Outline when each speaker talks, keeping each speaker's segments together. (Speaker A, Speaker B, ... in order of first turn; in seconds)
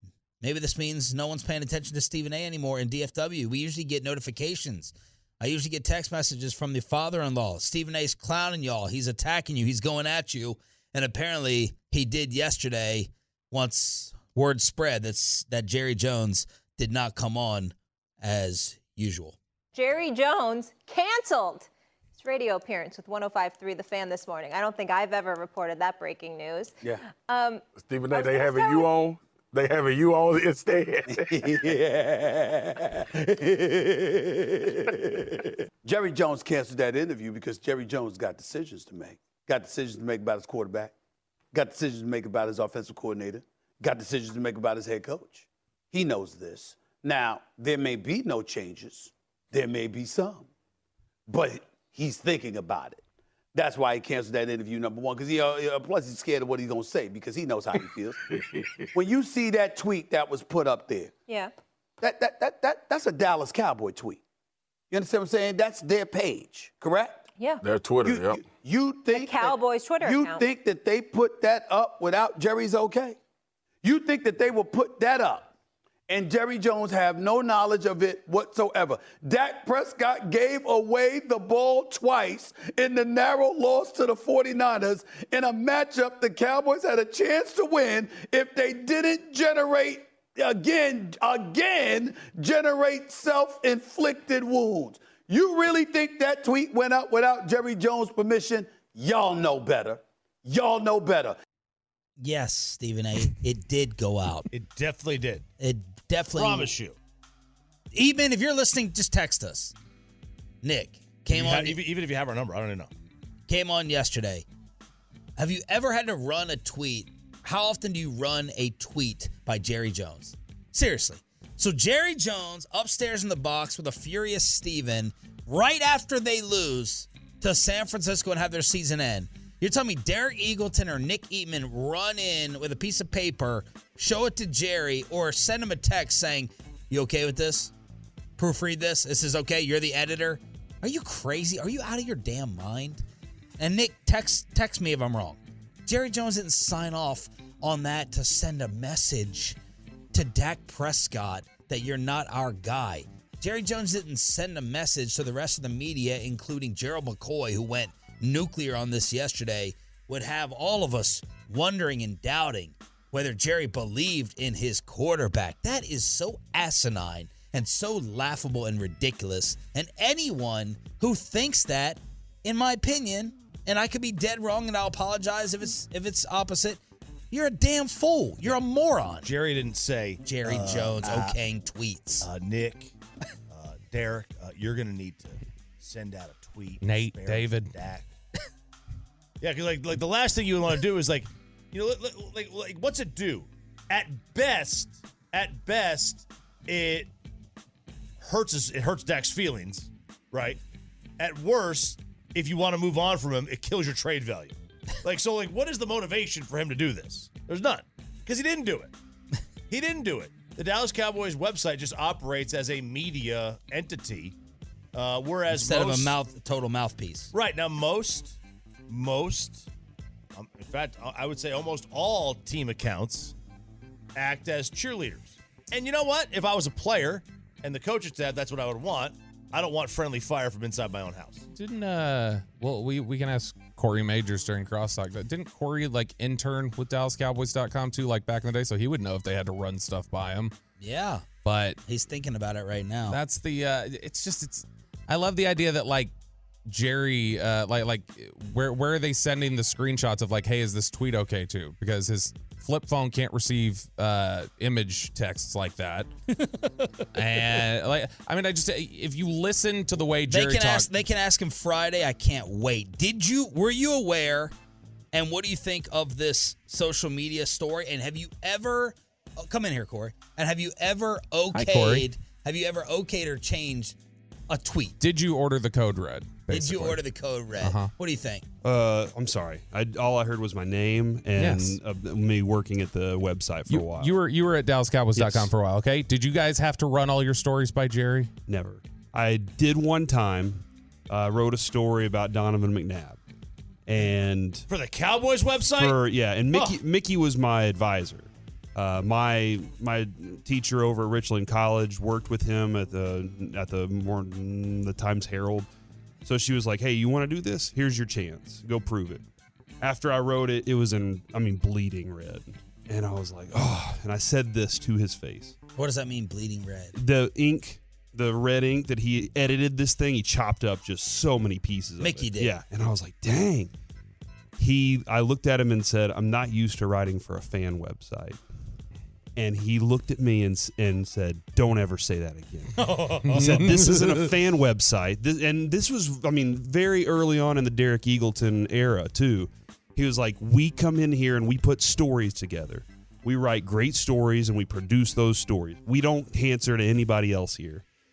Speaker A: 0.4-19.4, 102.2-104.5, 105.6-106.7, 107.9-109.7, 110.6-111.8, 113.5-114.4, 115.4-137.7, 138.4-143.0, 143.6-149.6, 150.1-179.3, 180.2-182.3, 215.5-217.3, 240.8-241.2, 241.8-243.2, 260.3-264.5, 265.1-273.9, 274.5-274.9, 276.5-278.4, 315.8-316.9, 322.0-322.5
Speaker B: 19.7-28.9, 69.1-70.5
Speaker C: 27.7-31.7, 67.6-68.4
Speaker D: 31.1-40.9, 41.5-50.5, 51.3-53.0, 53.5-58.2, 58.9-61.1, 62.0-64.2, 64.9-67.2, 68.0-73.2, 73.8-75.5, 76.1-101.3
Speaker E: 104.5-105.4, 106.3-107.0, 111.3-112.9, 179.2-181.4, 182.2-182.9, 183.5-188.1, 189.4-197.1, 198.2-200.6, 201.2-208.9, 209.7-214.3, 214.9-216.2, 217.3-218.4, 218.9-219.7, 220.3-223.3, 224.1-231.4, 294.7-296.8, 332.8-334.2
Speaker F: 186.8-187.7, 231.5-240.5, 241.4-241.8, 243.1-246.1, 246.7-256.1, 257.1-260.9, 271.5-272.1, 275.0-277.0, 277.6-277.9, 281.4-281.8, 283.7-288.3, 333.3-333.9
Speaker G: 278.6-284.1, 285.1-285.5, 288.5-293.2, 293.9-294.6, 295.8-305.7, 306.2-309.2, 309.8-315.5, 316.9-323.7, 324.6-328.4, 329.4-347.8